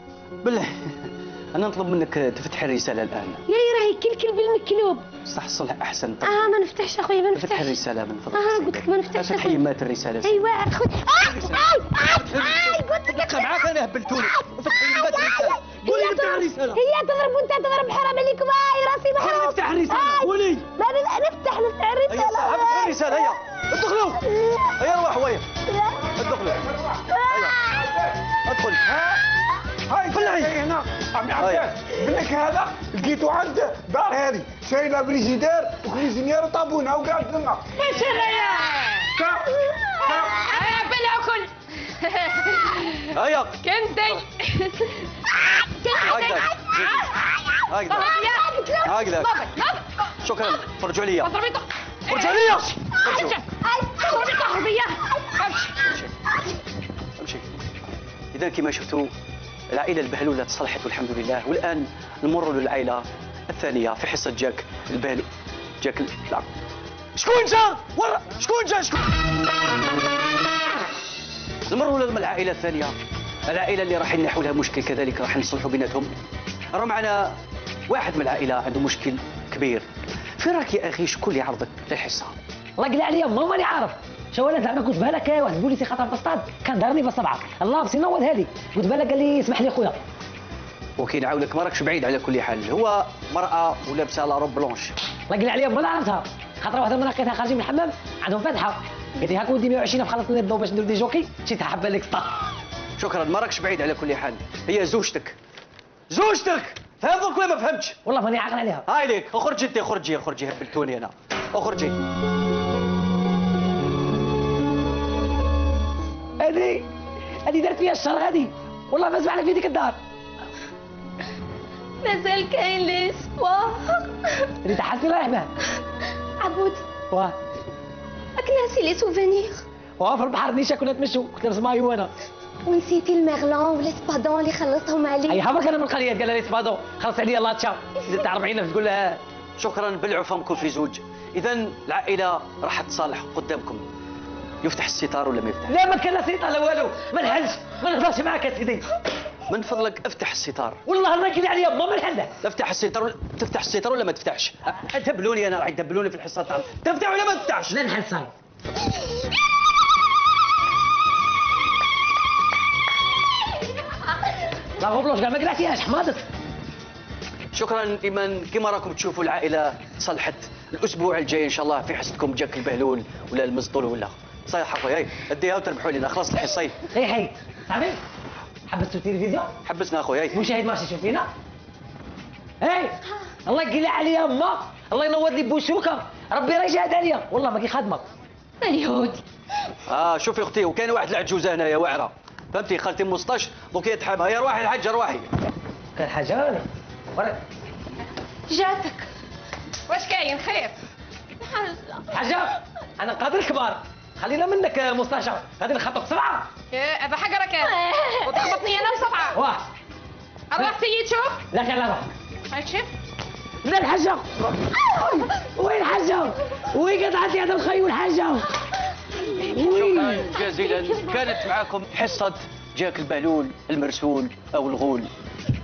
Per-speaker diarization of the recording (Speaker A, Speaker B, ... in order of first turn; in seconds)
Speaker A: 0.4-3.4, 5.2-6.6, 7.3-10.4, 11.2-16.8, 19.1-20.7, 22.1-25.5, 26.1-26.6, 27.3-27.6, 28.4-29.0, 30.1-30.5, 31.4-31.6, 43.1-43.6, 46.0-47.0, 47.7-48.1, 48.8-49.4, 50.2-51.3, 52.1-53.4, 55.9-56.1, 57.2-57.5, 58.3-59.1, 59.7-65.3, 65.8-66.5, 67.2-69.1, 71.7-73.0, 73.5-76.1, 76.7-77.3, 77.9-79.8, 80.4-82.3, 91.0-94.9, 103.0-105.4, 106.1-108.0, 108.8-112.0, 139.6-143.8, 144.6-145.8, 149.5-150.8, 152.4-157.8, 167.5-176.8, 179.6-180.4, 189.9-195.3, 219.4-225.1
Speaker B: 3.5-5.2, 6.2-9.6, 10.2-23.0, 24.2-24.8, 25.6-26.1, 27.1-27.9, 37.9-38.8, 45.8-46.5, 48.1-48.8, 53.6-54.8, 122.0-124.1, 126.4-126.8, 128.3-129.6, 132.6-135.4, 188.6-188.9, 198.6-198.9
Speaker C: 26.4-27.1, 27.7-28.1, 29.9-37.7, 39.1-40.5
Speaker D: 38.0-39.1, 40.2-43.1, 43.6-45.3, 45.9-47.1, 47.9-49.9, 51.2-53.4, 54.0-55.9, 199.9-200.8, 201.4-201.8, 206.7-209.4, 210.5-211.4, 212.5-212.9
Speaker E: 82.8-90.0, 95.3-102.4, 108.0-108.8, 116.4-116.8, 117.4-120.0, 124.6-125.5, 127.1-127.3, 130.0-132.1, 135.3-139.2, 145.7-148.8, 150.8-152.4, 157.7-158.3, 164.8-166.2, 176.9-178.0, 178.7-179.5, 180.3-181.3, 182.6-188.1, 195.9-197.4, 202.1-206.5, 209.3-209.6, 211.5-212.1, 213.6-218.5, 219.3-220.3